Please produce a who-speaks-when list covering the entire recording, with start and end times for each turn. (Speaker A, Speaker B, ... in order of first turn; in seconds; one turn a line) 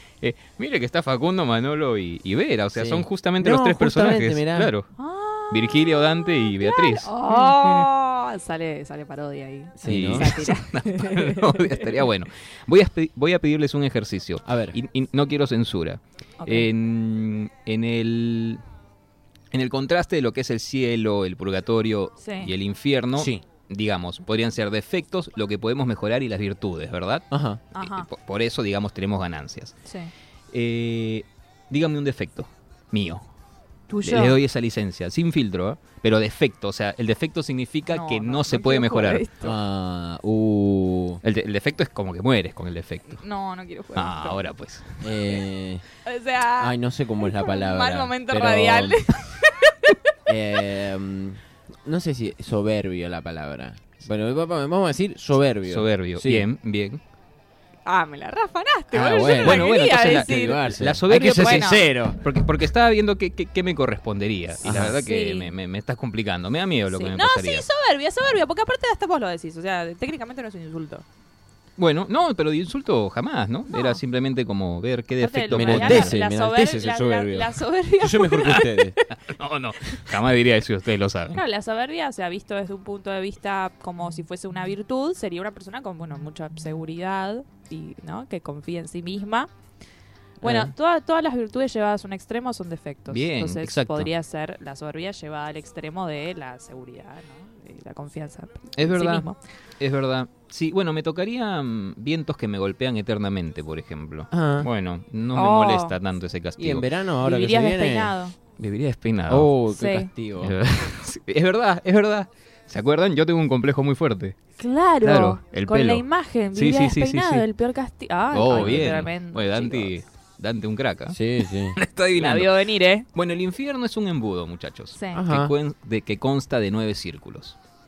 Speaker A: 0.2-4.9
Speaker B: 2.8-4.7
Speaker C: 5.0-12.0
Speaker A: 5.5-7.5
Speaker B: 9.8-10.4
Speaker A: 9.8-18.6
Speaker B: 14.4-14.8
Speaker C: 16.4-16.7
Speaker A: 19.5-29.7
Speaker C: 22.2-22.5
Speaker B: 23.1-23.4
Speaker B: 27.3-27.6
Speaker C: 27.7-28.1
Speaker C: 29.8-30.1
Speaker A: 30.5-33.2
Speaker C: 33.9-34.4
Speaker A: 34.0-39.2
Speaker C: 37.9-39.5
Speaker B: 39.4-41.2
Speaker A: 41.2-43.2
Speaker C: 43.1-44.5
Speaker A: 43.9-45.4
Speaker B: 45.0-45.8
Speaker C: 46.0-50.1
Speaker B: 46.6-49.1
Speaker B: 50.3-56.5
Speaker A: 55.7-57.0
Speaker C: 57.8-60.6
Speaker B: 58.9-62.2
Speaker A: 59.4-67.7
Speaker C: 61.4-61.8
Speaker B: 64.6-65.0
Speaker C: 64.8-65.5
Speaker C: 66.9-71.0
Speaker A: 71.8-76.2
Speaker C: 73.7-74.0
Speaker C: 75.2-78.6
Speaker B: 75.5-79.0
Speaker A: 78.4-81.4
Speaker C: 81.3-89.5
Speaker B: 90.4-90.7
Speaker C: 90.4-99.4
Speaker A: 93.1-94.1
Speaker A: 98.7-99.3
Speaker A: 99.8-106.9
Speaker B: 104.3-104.7
Speaker C: 105.3-106.0
Speaker B: 106.6-108.1
Speaker C: 107.2-108.4
Speaker A: 108.6-109.5
Speaker B: 109.3-110.5
Speaker C: 109.7-110.1
Speaker A: 110.4-114.4
Speaker C: 114.6-119.9
Speaker A: 115.0-117.4
Speaker A: 118.3-121.2
Speaker B: 118.5-119.1
Speaker B: 121.1-121.8
Speaker A: 121.7-122.5
Speaker C: 122.1-123.1
Speaker A: 123.1-127.6
Speaker C: 124.9-125.2
Speaker B: 125.1-125.5